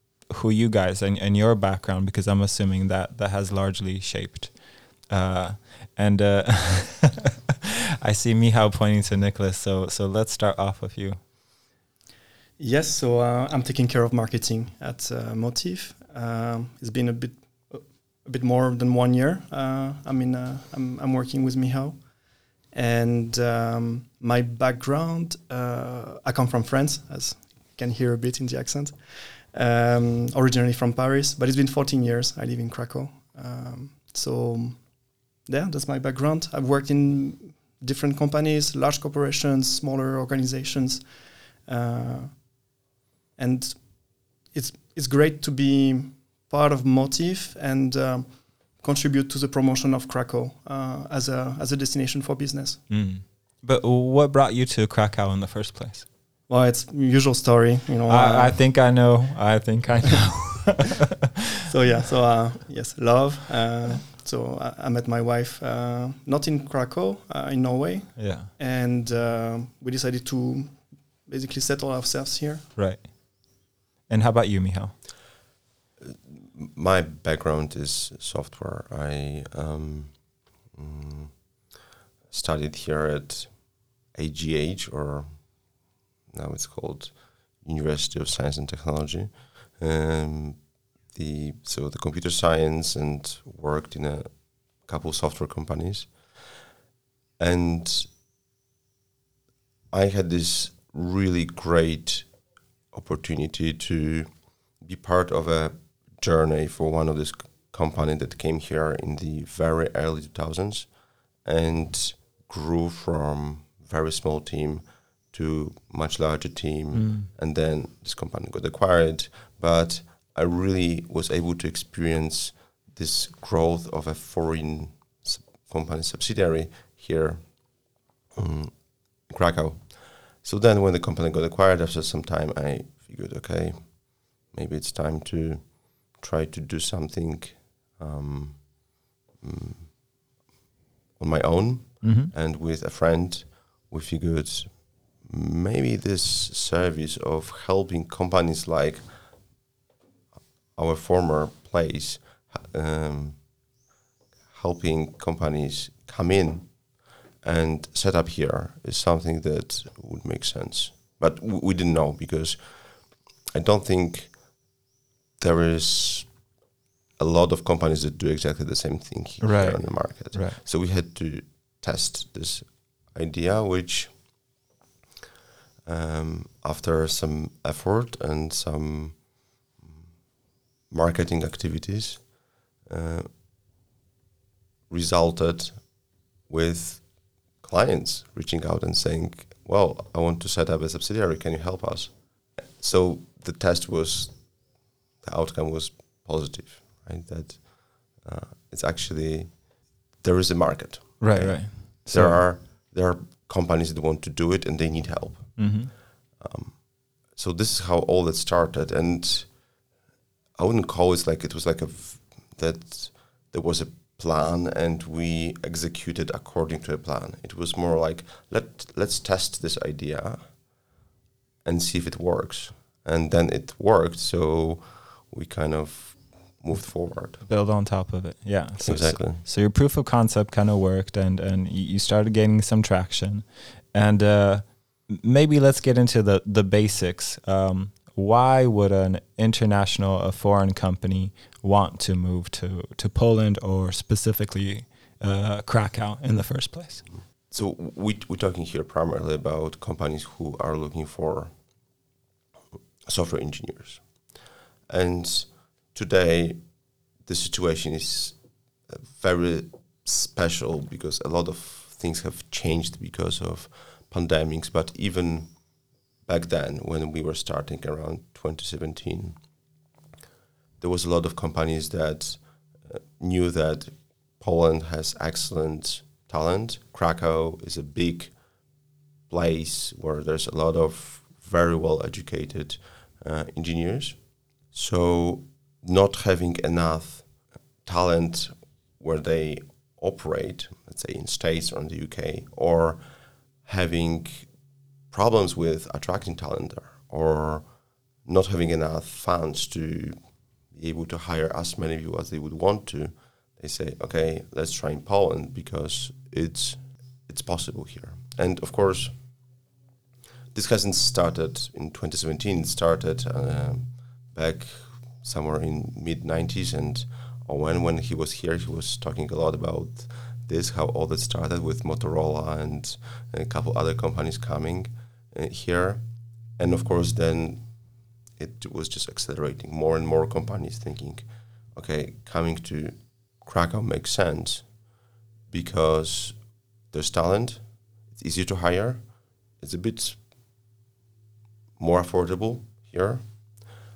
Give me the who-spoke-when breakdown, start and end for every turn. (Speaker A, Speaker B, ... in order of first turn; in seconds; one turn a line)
Speaker A: 0.3-7.3
Speaker A: 8.0-11.2
Speaker B: 12.6-22.0
Speaker B: 22.7-41.1
Speaker B: 41.6-42.5
Speaker B: 43.4-52.8
Speaker A: 52.9-56.0
Speaker B: 56.5-58.7
Speaker A: 58.1-61.3
Speaker B: 61.6-72.6
Speaker A: 68.2-68.5
Speaker A: 72.8-73.1
Speaker A: 74.1-75.0
Speaker C: 76.0-81.6
Speaker C: 82.3-85.5
Speaker C: 86.3-96.4
Speaker C: 97.4-98.1
Speaker C: 99.9-102.3
Speaker C: 102.9-140.0
Speaker A: 116.9-117.3
Speaker C: 141.2-149.4
Speaker A: 142.0-142.3
Speaker C: 150.7-153.5
Speaker C: 154.5-156.9
Speaker C: 157.4-164.6
Speaker C: 165.4-166.4
Speaker C: 167.2-174.3
Speaker A: 169.4-170.6
Speaker C: 175.8-180.0
Speaker C: 180.9-183.3
Speaker C: 184.9-185.9
Speaker C: 186.5-209.6
Speaker A: 201.2-202.4
Speaker A: 205.6-205.9
Speaker C: 210.5-220.7
Speaker C: 221.6-227.4
Speaker A: 226.8-247.1
Speaker C: 228.8-229.4
Speaker C: 247.4-251.6
Speaker C: 253.1-254.4
Speaker C: 254.9-265.6
Speaker C: 266.2-269.4
Speaker C: 270.8-278.4
Speaker C: 279.3-293.1
Speaker C: 293.6-294.5
Speaker C: 295.1-300.2
Speaker C: 300.7-309.1
Speaker C: 310.5-327.7
Speaker C: 328.4-334.8
Speaker C: 335.5-340.2
Speaker C: 341.8-343.6